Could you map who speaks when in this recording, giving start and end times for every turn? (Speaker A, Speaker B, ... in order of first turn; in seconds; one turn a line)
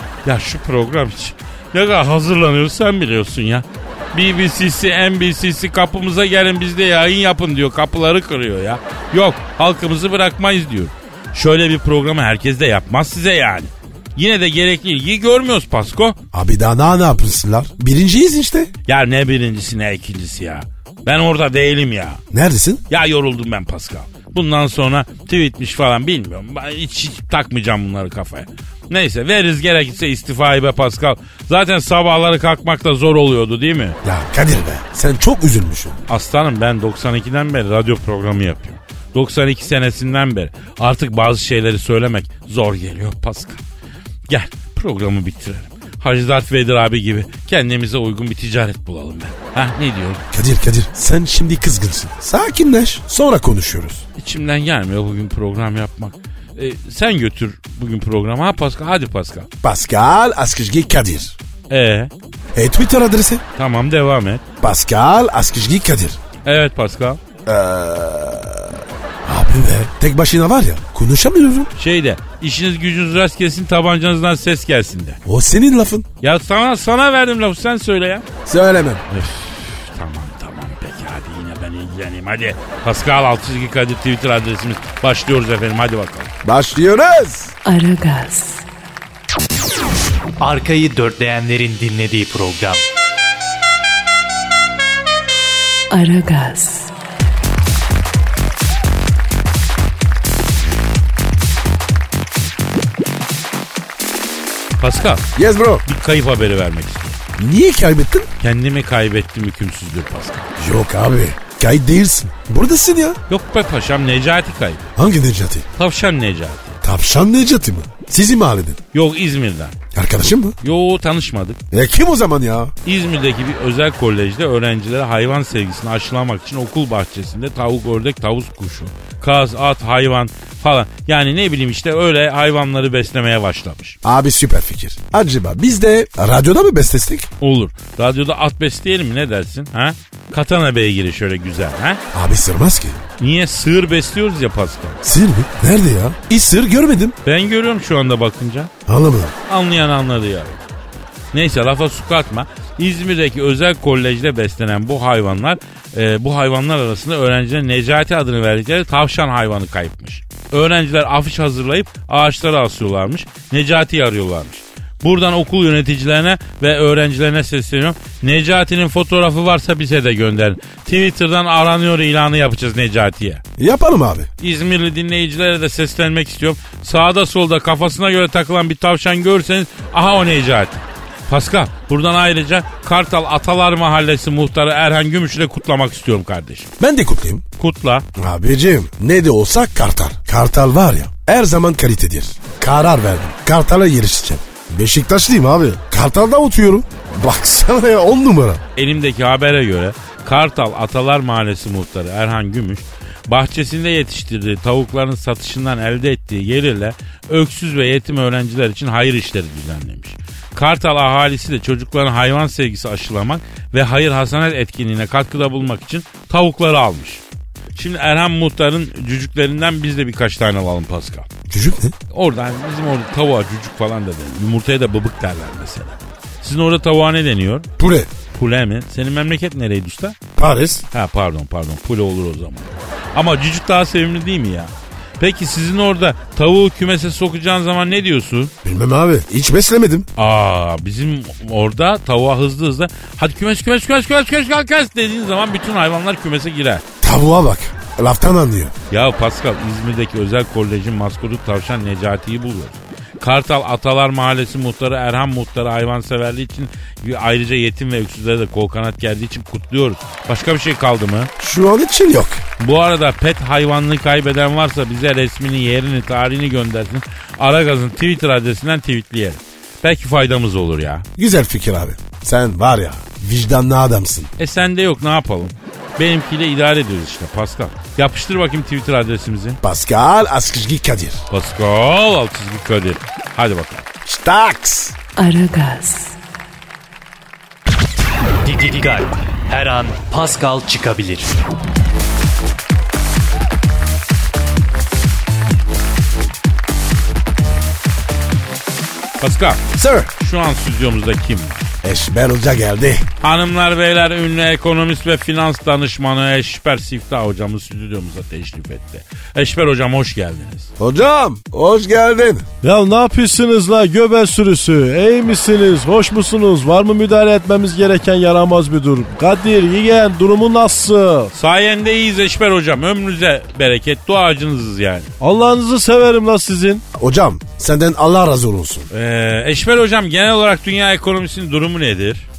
Speaker A: 0.2-16.2
Speaker B: 16.3-18.7
Speaker A: 18.9-22.2
Speaker B: 22.3-22.8
Speaker A: 22.9-34.0
Speaker B: 34.0-36.0
Speaker A: 36.1-43.6
Speaker A: 44.3-50.2
Speaker B: 50.3-54.0
Speaker A: 54.2-59.5
Speaker B: 59.6-61.4
Speaker A: 61.7-62.1
Speaker B: 62.5-63.4
Speaker A: 63.6-64.4
Speaker B: 64.6-66.2
Speaker A: 66.5-67.2
Speaker B: 67.5-71.7
Speaker A: 71.8-75.2
Speaker B: 75.2-76.1
Speaker A: 76.2-78.3
Speaker B: 78.5-79.0
Speaker A: 79.1-86.3
Speaker B: 86.4-87.5
Speaker C: 87.7-88.7
Speaker D: 90.4-92.8
Speaker C: 95.9-96.9
Speaker A: 104.8-105.3
Speaker B: 105.4-105.8
Speaker A: 105.9-107.2
Speaker B: 107.4-108.3
Speaker A: 108.4-110.5
Speaker B: 110.6-113.2
Speaker A: 113.3-114.9
Speaker B: 115.0-115.7
Speaker A: 115.8-116.8
Speaker B: 116.8-118.8
Speaker A: 118.9-119.8
Speaker B: 119.9-120.6
Speaker A: 120.6-121.6
Speaker B: 121.7-122.7
Speaker A: 122.8-134.0
Speaker B: 134.0-137.3
Speaker A: 137.4-142.0
Speaker B: 142.1-143.0
Speaker A: 143.2-145.0
Speaker B: 145.0-147.2
Speaker A: 147.2-148.7
Speaker B: 148.9-149.3
Speaker A: 149.5-150.6
Speaker A: 151.3-173.4
Speaker B: 173.6-174.3
Speaker A: 174.4-186.7
Speaker B: 186.8-187.4
Speaker A: 187.6-188.1
Speaker B: 188.2-198.6
Speaker A: 198.8-217.2
Speaker A: 217.8-221.3
Speaker B: 221.5-221.9
Speaker A: 222.1-227.7
Speaker B: 227.8-228.1
Speaker A: 228.3-230.2
Speaker B: 230.4-230.9
Speaker A: 230.9-238.5
Speaker B: 238.7-240.1
Speaker A: 240.2-246.8
Speaker B: 247.0-248.8
Speaker A: 248.9-261.3
Speaker B: 261.4-262.4
Speaker A: 262.6-271.1
Speaker B: 271.2-274.3
Speaker A: 274.4-279.6
Speaker B: 279.6-281.2
Speaker A: 281.3-283.9
Speaker B: 284.1-284.9
Speaker C: 285.2-286.2
Speaker D: 288.4-291.3
Speaker A: 299.2-299.7
Speaker B: 299.7-300.1
Speaker A: 300.2-301.7
Speaker B: 301.8-303.1
Speaker A: 303.2-310.7
Speaker B: 310.8-312.5
Speaker E: 312.6-321.3
Speaker A: 321.4-325.1
Speaker E: 325.2-326.8
Speaker B: 326.9-328.9
Speaker A: 328.9-332.2